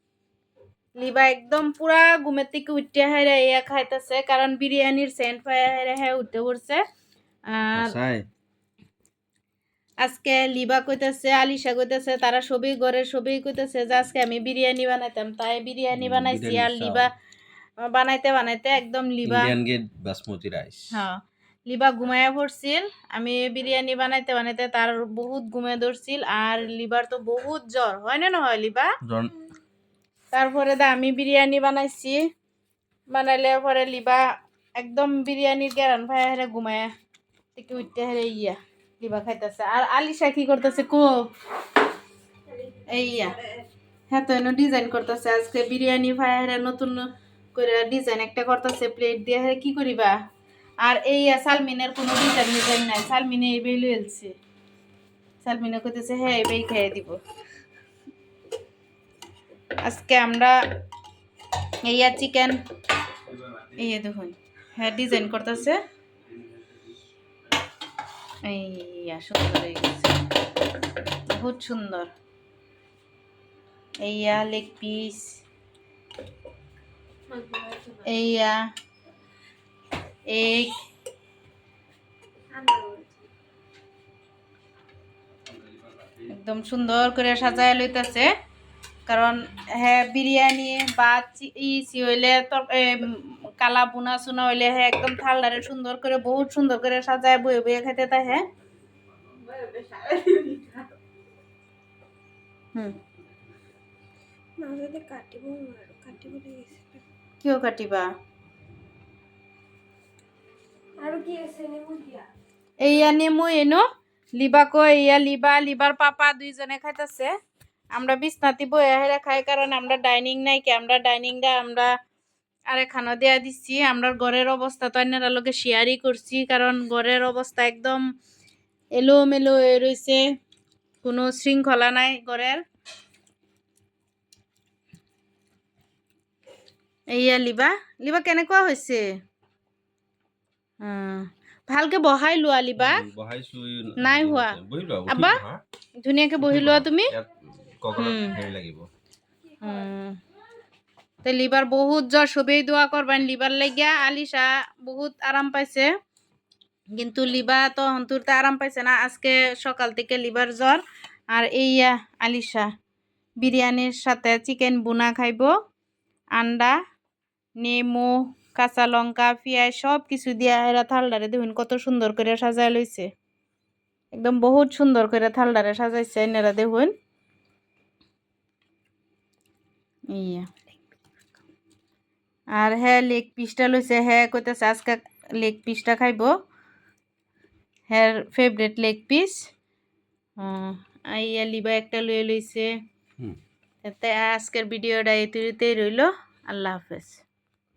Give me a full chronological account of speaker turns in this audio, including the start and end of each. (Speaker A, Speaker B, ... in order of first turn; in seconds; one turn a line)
Speaker A: 1.0-6.8
Speaker A: 7.5-7.9
Speaker B: 7.7-8.2
Speaker A: 10.0-17.1
Speaker B: 15.9-17.1
Speaker A: 17.8-19.5
Speaker B: 19.2-21.0
Speaker A: 20.9-28.9
Speaker B: 29.0-29.3
Speaker A: 30.3-32.2
Speaker A: 33.1-34.2
Speaker A: 34.8-36.9
Speaker A: 37.5-41.3
Speaker A: 42.9-43.4
Speaker A: 44.1-50.2
Speaker A: 50.8-54.3
Speaker A: 55.4-57.2
Speaker A: 59.8-60.5
Speaker A: 61.8-62.6
Speaker B: 63.3-63.8
Speaker A: 63.8-65.8
Speaker A: 68.4-70.2
Speaker A: 71.3-72.1
Speaker A: 74.0-75.4
Speaker C: 77.3-78.0
Speaker A: 78.0-78.6
Speaker A: 80.3-80.7
Speaker C: 82.5-83.3
Speaker A: 86.2-88.3
Speaker A: 89.0-98.5
Speaker C: 99.5-100.9
Speaker C: 104.6-107.0
Speaker A: 107.4-108.1
Speaker C: 111.0-112.3
Speaker A: 112.8-113.8
Speaker A: 114.4-117.3
Speaker A: 117.9-121.9
Speaker A: 122.7-128.0
Speaker A: 128.9-130.2
Speaker A: 131.0-132.6
Speaker A: 137.1-139.1
Speaker A: 140.8-143.1
Speaker B: 142.8-145.6
Speaker A: 144.0-145.4
Speaker A: 146.0-147.1
Speaker B: 146.4-148.8
Speaker A: 147.9-148.4
Speaker A: 149.6-150.2
Speaker A: 151.2-155.9
Speaker A: 156.9-162.7
Speaker A: 163.4-165.5
Speaker A: 166.3-166.8
Speaker A: 167.6-173.1
Speaker A: 174.1-176.9
Speaker A: 180.1-180.5
Speaker A: 182.5-186.3
Speaker A: 187.9-189.5
Speaker A: 190.4-192.7
Speaker A: 193.8-197.2